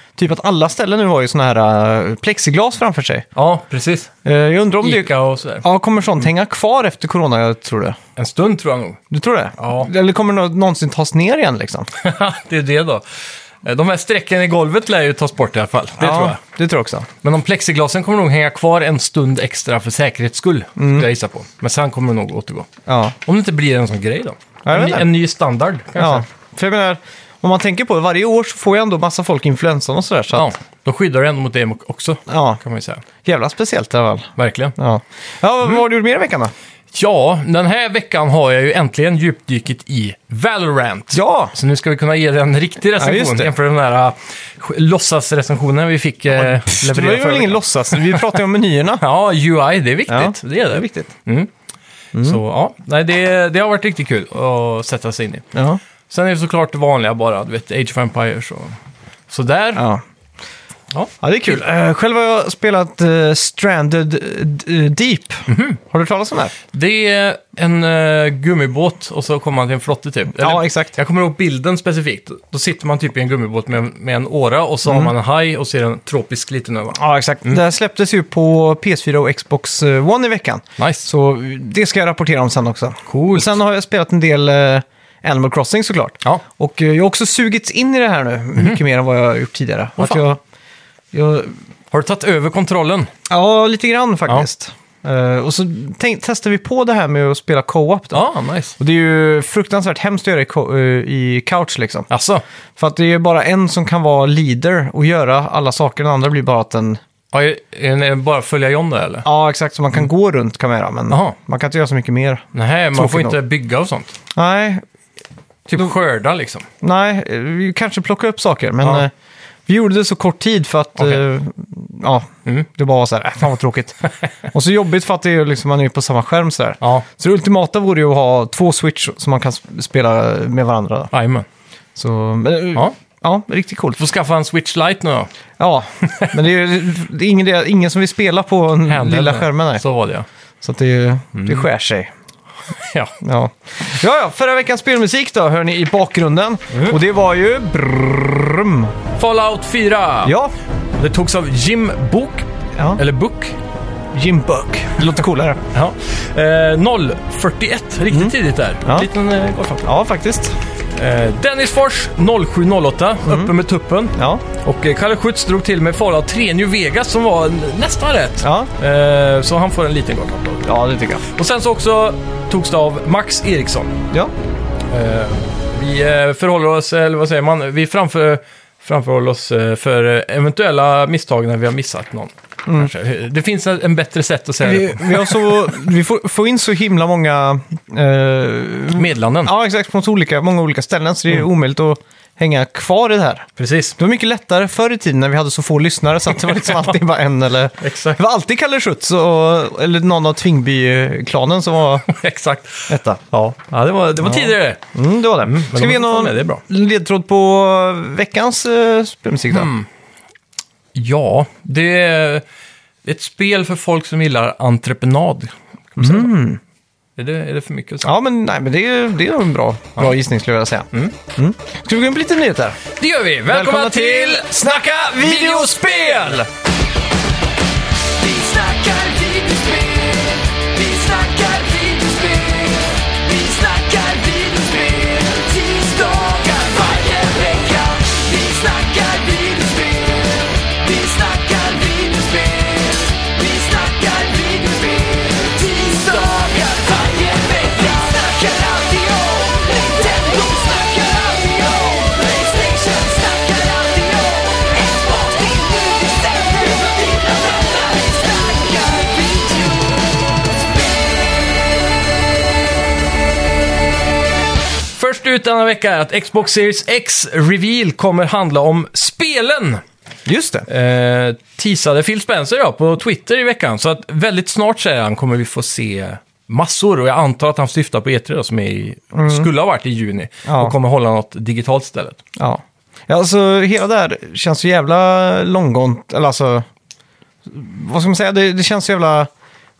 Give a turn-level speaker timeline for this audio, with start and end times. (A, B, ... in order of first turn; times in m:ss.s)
0:00.2-0:03.3 A
0:03.4-0:04.1 B
0:04.2-0:08.0 A
0:04.8-0:05.6 B
0:08.2-0:09.0 B
0:09.1-0:11.9 A
0:09.6-0:09.9 B
0:12.0-0:13.0 B
0:13.6-0:16.4 B
0:16.0-0:17.1 A
0:17.2-0:22.7 B
0:20.8-0:21.1 A
0:22.9-0:23.2 A
0:23.2-0:26.2 B
0:24.6-0:25.1 A
0:26.0-0:30.5 A
0:30.3-0:33.0 B
0:32.3-0:32.6 A
0:33.2-0:36.5 A
0:34.4-0:34.8 B
0:36.9-0:48.2 B
0:41.1-0:41.5 A
0:43.0-0:43.5 A
0:46.4-0:49.0 A
0:49.0-0:51.5 B
0:50.1-0:51.1 A
0:52.1-0:52.4 A
0:52.2-0:55.5 B
0:55.5-0:55.8 A
0:56.1-0:58.8 B
0:59.3-0:59.9 B
0:59.8-1:00.0 A
1:00.9-1:01.5 B
1:01.2-1:06.6 A
1:05.5-1:05.8 B
1:06.7-1:17.6 B
1:10.4-1:11.0 A
1:14.9-1:15.1 A
1:17.0-1:30.4 A
1:20.8-1:21.1 B
1:23.1-1:23.6 B
1:31.1-1:31.5 A
1:31.9-1:33.1 B
1:33.3-1:38.3 A
1:38.1-1:38.8 B
1:38.8-1:42.1 A
1:42.1-1:42.4 B
1:42.8-1:47.0 A
1:47.3-1:49.3 B
1:49.2-1:53.4 A
1:51.1-1:51.4 B
1:52.5-1:54.1 B
1:54.3-1:54.8 A
1:55.7-1:56.7 B
1:56.8-1:59.1 A
1:59.7-2:04.0 A
2:04.5-2:11.1 A
2:11.1-2:11.5 B
2:12.0-2:14.0 A
2:14.0-2:15.3 B
2:15.6-2:19.8 A
2:16.0-2:16.3 B
2:18.9-2:20.3 B
2:20.6-2:22.1 A
2:21.4-2:21.7 B
2:22.7-2:23.2 B
2:23.2-2:28.9 A
2:26.7-2:27.0 B
2:29.2-2:30.4 B
2:30.2-2:30.5 A
2:31.0-2:33.6 B
2:34.1-2:35.6 A
2:35.7-2:39.9 B
2:38.1-2:39.1 A
2:39.8-2:40.6 A
2:41.0-2:50.7 B
2:43.3-2:43.5 A
2:44.2-2:44.4 A
2:48.4-2:48.7 A
2:50.6-2:51.2 A
2:51.2-2:54.0 B
2:54.9-3:05.4 B
3:04.6-3:22.1 A
3:08.9-3:09.5 B
3:13.6-3:14.0 B
3:17.8-3:18.2 B
3:22.1-3:24.8 B
3:22.9-3:23.2 A
3:24.2-3:29.7 A
3:25.4-3:26.6 B
3:29.5-3:29.9 B
3:31.0-3:32.4 B
3:33.0-3:36.4 B
3:36.0-3:36.6 A
3:37.2-3:38.1 B
3:38.0-3:42.8 A
3:43.0-3:46.5 B
3:43.5-3:46.5 A
3:48.2-4:19.9 C
4:24.9-4:29.8 B
4:30.3-4:30.7 A
4:30.7-4:42.2 B
4:39.1-4:39.5 A
4:40.5-4:40.7 A
4:42.4-4:46.7 A
4:47.5-4:49.3 A